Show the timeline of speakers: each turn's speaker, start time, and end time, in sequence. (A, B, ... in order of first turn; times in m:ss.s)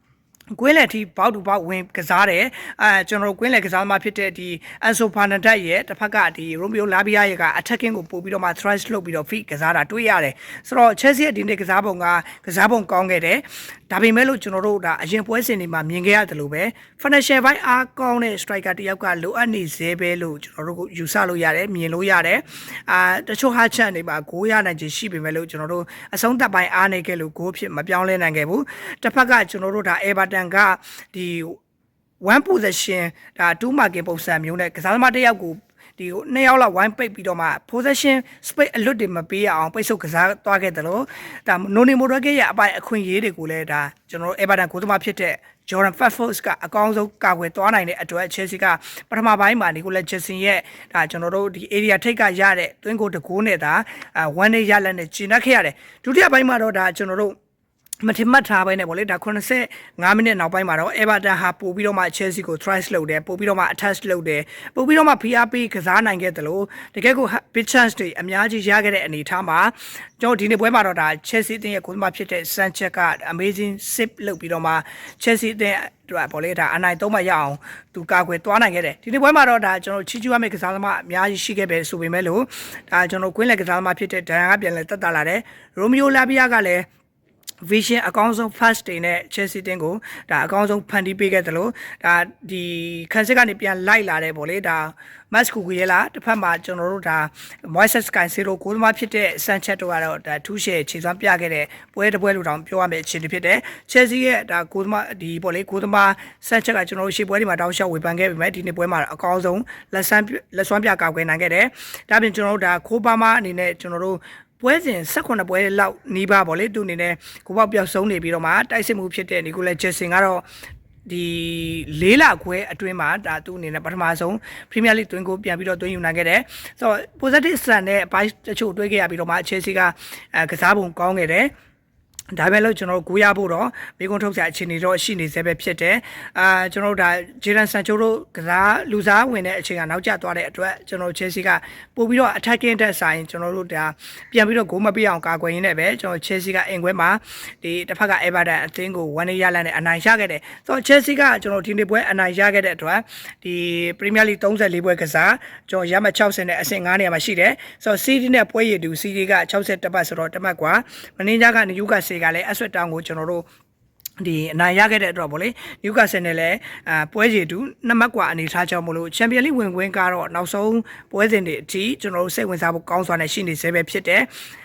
0:00.5-0:31.6 A
0:32.2-0:57.3 A
0:58.0-1:26.9 A
1:27.6-2:00.4 A
2:01.0-2:11.5 A
2:12.3-2:43.4 A
2:44.2-2:54.3 A